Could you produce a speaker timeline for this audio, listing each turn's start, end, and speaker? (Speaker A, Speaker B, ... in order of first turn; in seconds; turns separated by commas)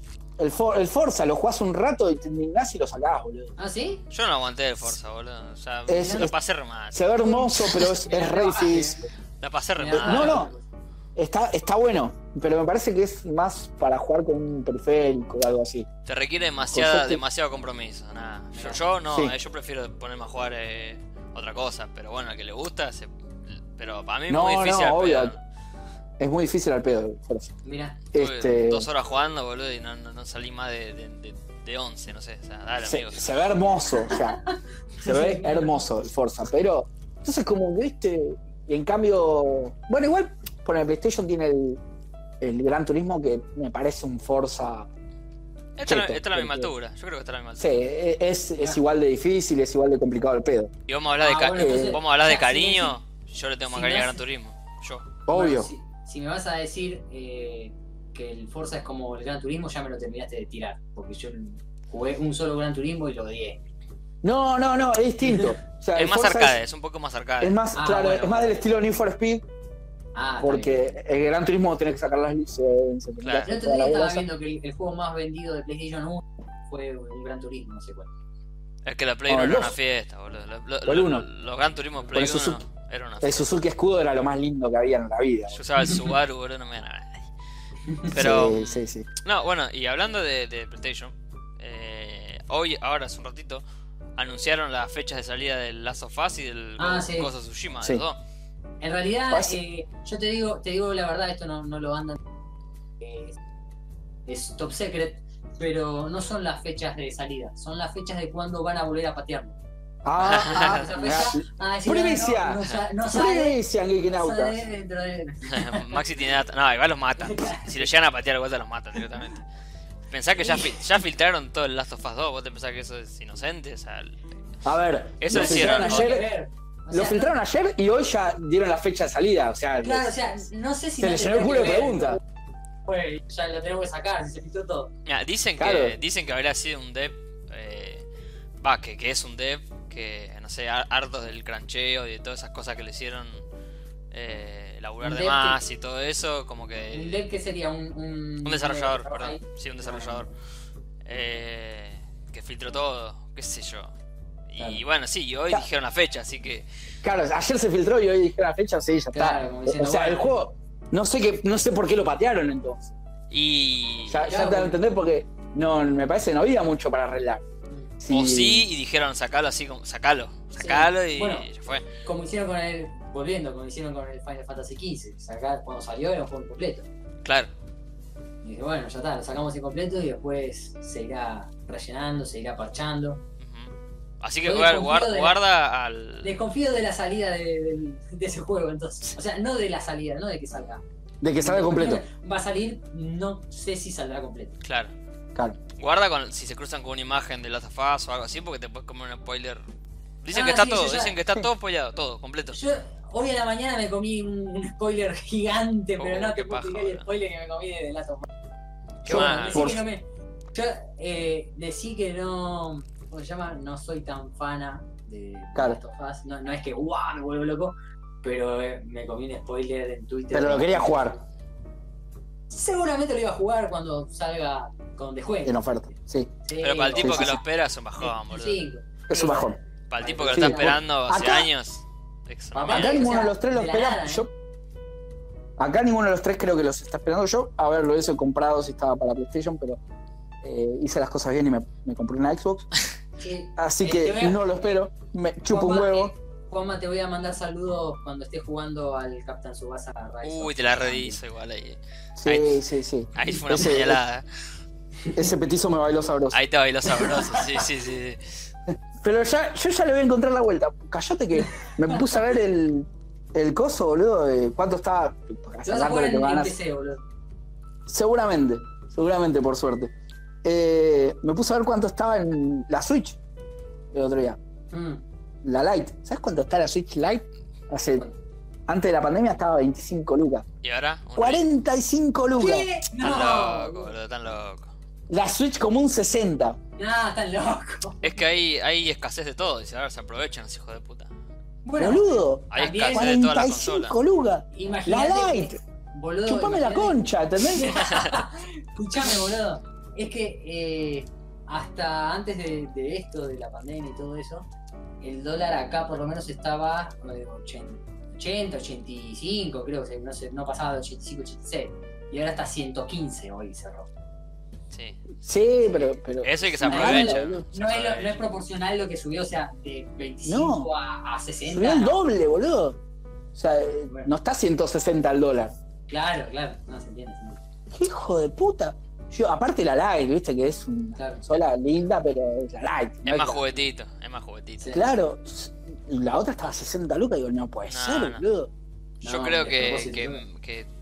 Speaker A: 0.4-3.5, Speaker B: 3.6-4.0, Speaker C: 4.1-7.0, Speaker A: 5.9-6.3, Speaker B: 6.0-6.2, Speaker A: 6.9-9.1, Speaker B: 7.5-9.1, Speaker C: 9.4-10.5, Speaker B: 9.8-10.6, Speaker A: 9.9-10.5, Speaker A: 11.2-15.9, Speaker C: 16.1-23.1, Speaker A: 16.7-17.2, Speaker B: 18.5-18.8, Speaker C: 23.7-25.4, Speaker A: 24.3-25.3, Speaker A: 26.2-27.5, Speaker B: 27.6-28.0, Speaker A: 28.1-28.9, Speaker C: 28.1-33.2, Speaker A: 32.8-34.4, Speaker B: 34.1-34.5, Speaker A: 35.0-41.8, Speaker B: 35.0-35.7, Speaker A: 42.4-44.9, Speaker C: 45.8-47.7, Speaker A: 45.8-46.7, Speaker A: 47.6-50.7, Speaker C: 50.9-55.0, Speaker B: 51.2-52.9, Speaker A: 51.6-52.0, Speaker B: 53.7-54.2, Speaker A: 55.2-55.7, Speaker B: 55.3-63.6, Speaker A: 64.2-66.6, Speaker C: 65.9-67.6, Speaker A: 67.4-69.4, Speaker B: 67.7-68.5, Speaker B: 70.1-70.8, Speaker A: 70.4-74.3, Speaker C: 73.2-73.5, Speaker B: 73.5-78.1, Speaker C: 78.8-83.5, Speaker A: 79.3-79.8, Speaker A: 80.8-81.2, Speaker A: 82.1-82.6, Speaker A: 83.2-85.6, Speaker C: 85.5-87.2, Speaker B: 87.9-88.1, Speaker C: 88.1-93.6, Speaker A: 88.1-89.1, Speaker C: 94.2-98.2, Speaker B: 96.8-97.3, Speaker B: 98.8-102.2, Speaker A: 99.3-99.6, Speaker B: 103.0-103.4, Speaker B: 104.3-109.6, Speaker A: 110.0-114.6, Speaker C: 110.2-111.2, Speaker B: 110.4-116.0, Speaker C: 115.5-119.4, Speaker B: 117.2-117.8, Speaker C: 120.1-124.2, Speaker B: 120.4-120.8, Speaker A: 124.6-126.3, Speaker C: 125.2-126.2, Speaker B: 125.3-127.3, Speaker A: 126.9-130.1, Speaker B: 129.8-132.2, Speaker A: 131.0-132.2, Speaker B: 132.8-134.9, Speaker C: 135.1-138.0, Speaker A: 135.6-136.0, Speaker C: 138.6-143.4, Speaker C: 144.1-147.2, Speaker B: 145.0-145.6, Speaker B: 146.9-150.2, Speaker C: 148.4-150.3, Speaker C: 151.0-153.9, Speaker C: 154.5-156.7, Speaker A: 157.0-162.9, Speaker B: 159.1-160.4, Speaker C: 163.3-164.3, Speaker A: 164.1-167.4, Speaker B: 164.3-164.8, Speaker A: 168.0-168.7, Speaker C: 168.1-171.8, Speaker B: 170.6-171.5, Speaker B: 172.0-176.9, Speaker C: 177.2-177.5, Speaker B: 178.4-183.2, Speaker C: 183.4-186.3, Speaker B: 184.4-185.4, Speaker B: 186.2-190.8, Speaker A: 191.2-192.0, Speaker B: 191.4-194.6, Speaker C: 194.6-194.9, Speaker C: 195.8-199.6, Speaker C: 200.2-202.6, Speaker B: 200.3-201.2, Speaker B: 202.5-208.3, Speaker C: 206.0-207.0, Speaker C: 209.0-209.8, Speaker A: 209.1-209.8, Speaker B: 209.1-221.2, Speaker A: 215.5-215.8, Speaker A: 220.3-221.2, Speaker B: 222.5-225.6, Speaker A: 225.4-226.3, Speaker B: 226.4-227.4, Speaker C: 226.6-228.6, Speaker A: 227.0-227.4, Speaker B: 228.0-230.8, Speaker A: 229.1-229.5, Speaker C: 229.9-233.2, Speaker A: 230.3-231.5, Speaker B: 232.5-234.2, Speaker A: 232.7-234.3, Speaker A: 235.6-239.8, Speaker A: 240.4-242.7, Speaker B: 243.2-244.4, Speaker A: 243.6-246.1, Speaker B: 245.5-251.2, Speaker C: 250.2-252.6, Speaker A: 252.2-254.0, Speaker C: 253.1-254.2, Speaker A: 255.1-256.4, Speaker C: 256.3-258.3, Speaker A: 259.0-266.6, Speaker B: 261.6-262.0, Speaker B: 265.6-267.0, Speaker A: 267.9-269.9, Speaker A: 270.4-273.2, Speaker A: 273.9-274.4, Speaker B: 274.7-275.0, Speaker A: 275.4-278.1, Speaker A: 278.7-280.4, Speaker C: 280.6-281.4, Speaker A: 281.1-282.7, Speaker B: 282.4-283.9, Speaker C: 283.0-284.7, Speaker A: 285.1-286.6, Speaker B: 286.8-288.2, Speaker C: 288.0-291.1, Speaker B: 291.6-293.1, Speaker A: 291.8-295.6, Speaker C: 292.5-293.9, Speaker B: 294.5-304.5, Speaker A: 296.2-297.8, Speaker C: 297.7-298.2, Speaker B: 305.0-313.9, Speaker C: 314.7-315.1, Speaker A: 315.2-317.4, Speaker C: 316.2-318.2, Speaker B: 316.7-322.0, Speaker A: 320.2-320.7, Speaker A: 321.5-322.8, Speaker A: 323.3-325.5, Speaker B: 323.8-324.1, Speaker B: 325.9-327.4, Speaker A: 327.7-333.5, Speaker B: 330.9-331.2, Speaker C: 333.0-334.8, Speaker B: 334.6-334.9, Speaker A: 334.7-338.5, Speaker C: 337.7-338.2, Speaker B: 339.0-340.2, Speaker C: 339.0-340.7